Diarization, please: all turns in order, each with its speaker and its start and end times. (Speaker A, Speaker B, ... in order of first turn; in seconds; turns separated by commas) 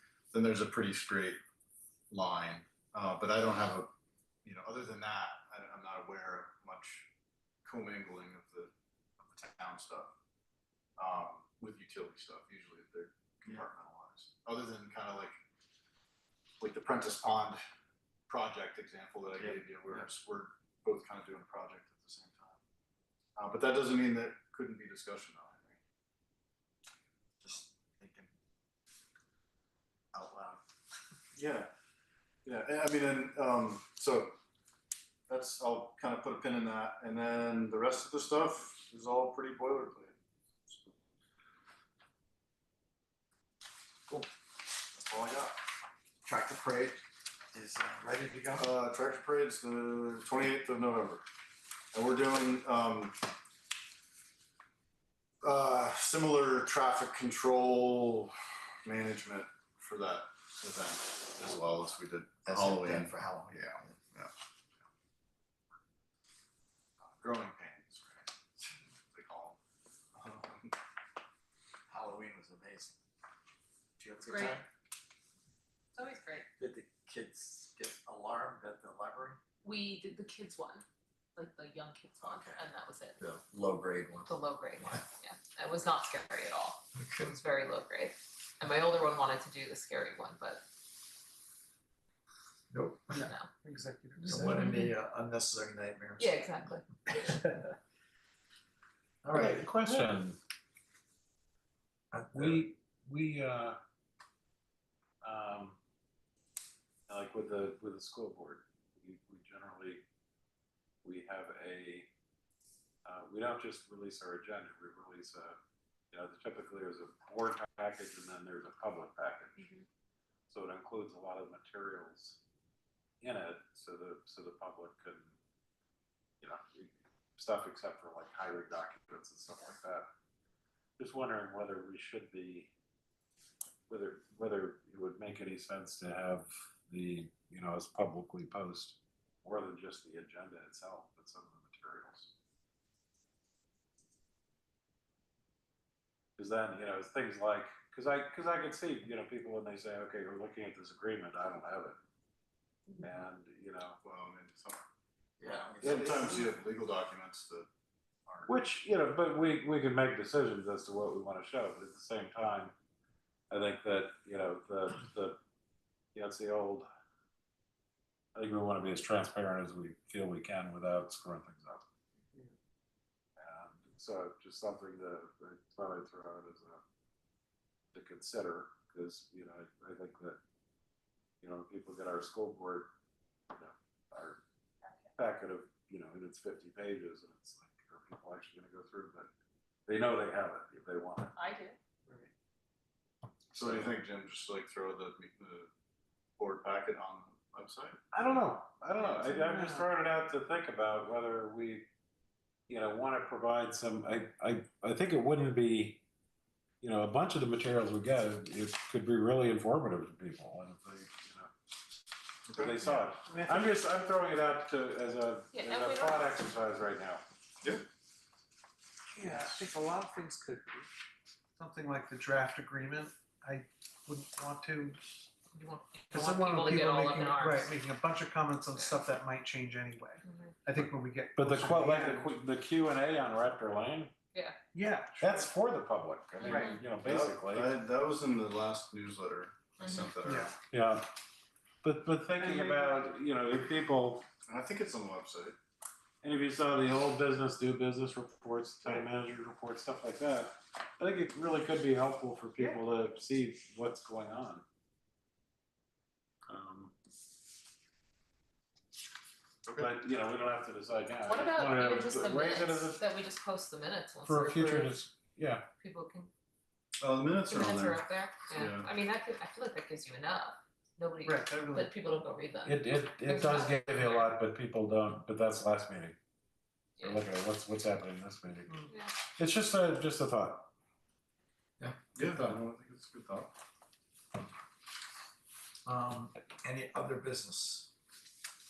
Speaker A: 0.3-1.4, Speaker A: 2.1-3.9, Speaker A: 4.4-7.1, Speaker A: 7.6-10.1, Speaker A: 11.0-15.3, Speaker A: 16.6-17.6, Speaker A: 18.3-22.6, Speaker B: 19.4-20.1, Speaker A: 23.4-25.8, Speaker B: 27.4-28.3, Speaker B: 30.1-30.6, Speaker A: 31.3-31.7, Speaker A: 32.4-34.3, Speaker A: 35.3-40.1, Speaker A: 44.9-45.6, Speaker B: 46.2-47.0, Speaker B: 47.5-48.7, Speaker A: 48.6-51.2, Speaker A: 51.9-53.2, Speaker A: 55.4-64.3, Speaker B: 62.5-64.0, Speaker A: 67.0-68.3, Speaker A: 69.1-69.6, Speaker A: 70.1-70.7, Speaker B: 71.9-73.0, Speaker B: 74.0-74.6, Speaker C: 74.3-74.6, Speaker C: 75.9-76.5, Speaker B: 76.6-79.4, Speaker C: 79.6-80.8, Speaker C: 81.3-83.2, Speaker B: 82.2-82.7, Speaker B: 83.2-85.1, Speaker C: 84.3-90.6, Speaker B: 86.9-87.4, Speaker B: 92.7-93.2, Speaker D: 93.1-94.7, Speaker C: 93.2-93.5, Speaker B: 94.2-96.3, Speaker C: 94.3-94.9, Speaker C: 96.2-97.4, Speaker B: 99.2-99.7, Speaker E: 99.3-100.4, Speaker B: 102.1-102.6, Speaker E: 102.3-103.8, Speaker E: 105.2-105.8, Speaker E: 107.1-110.0, Speaker E: 111.0-112.1, Speaker E: 113.0-115.6, Speaker E: 116.1-119.7, Speaker C: 119.6-119.8, Speaker E: 120.5-122.4, Speaker E: 123.2-125.3, Speaker E: 126.4-130.1, Speaker E: 131.0-132.7, Speaker E: 133.9-142.3, Speaker E: 146.4-152.0, Speaker E: 153.0-154.0, Speaker A: 154.0-154.8, Speaker B: 155.4-156.5, Speaker E: 155.8-156.5, Speaker A: 155.8-157.7, Speaker A: 158.2-158.5, Speaker E: 158.5-162.7, Speaker E: 163.5-165.4, Speaker E: 166.1-166.9, Speaker E: 168.3-171.8, Speaker E: 173.4-176.8, Speaker E: 177.9-180.4, Speaker E: 181.4-182.9, Speaker E: 183.5-184.4, Speaker E: 185.2-189.3, Speaker E: 189.9-191.3, Speaker C: 191.3-191.8, Speaker E: 193.5-193.9, Speaker A: 193.5-195.7, Speaker A: 196.4-198.4, Speaker E: 198.1-201.9, Speaker C: 199.0-199.6, Speaker D: 199.6-199.8, Speaker E: 202.7-206.0, Speaker E: 206.8-211.5, Speaker A: 212.5-212.7, Speaker E: 212.6-217.2, Speaker D: 212.8-213.7, Speaker C: 215.5-216.3, Speaker D: 219.1-220.9, Speaker D: 221.6-225.0, Speaker C: 225.5-227.8, Speaker D: 226.1-232.3, Speaker C: 228.7-229.0, Speaker C: 230.2-230.6, Speaker E: 231.3-234.1, Speaker D: 234.7-235.5, Speaker E: 235.2-237.7, Speaker C: 236.4-236.8, Speaker D: 236.4-236.8, Speaker A: 237.0-240.5, Speaker C: 239.8-240.1, Speaker D: 240.2-240.5, Speaker E: 240.7-241.1, Speaker E: 241.8-244.2, Speaker D: 242.4-243.0, Speaker A: 244.5-245.6, Speaker E: 246.2-254.6, Speaker E: 256.5-256.9, Speaker A: 259.6-259.9, Speaker E: 259.8-263.0, Speaker C: 261.2-265.0, Speaker E: 264.2-265.7, Speaker C: 265.8-266.3, Speaker A: 267.0-268.9, Speaker C: 267.4-274.4, Speaker D: 271.2-271.9, Speaker E: 272.6-276.1, Speaker C: 277.0-277.2, Speaker E: 277.0-280.7, Speaker C: 278.9-279.2, Speaker A: 282.1-283.5, Speaker B: 285.8-287.9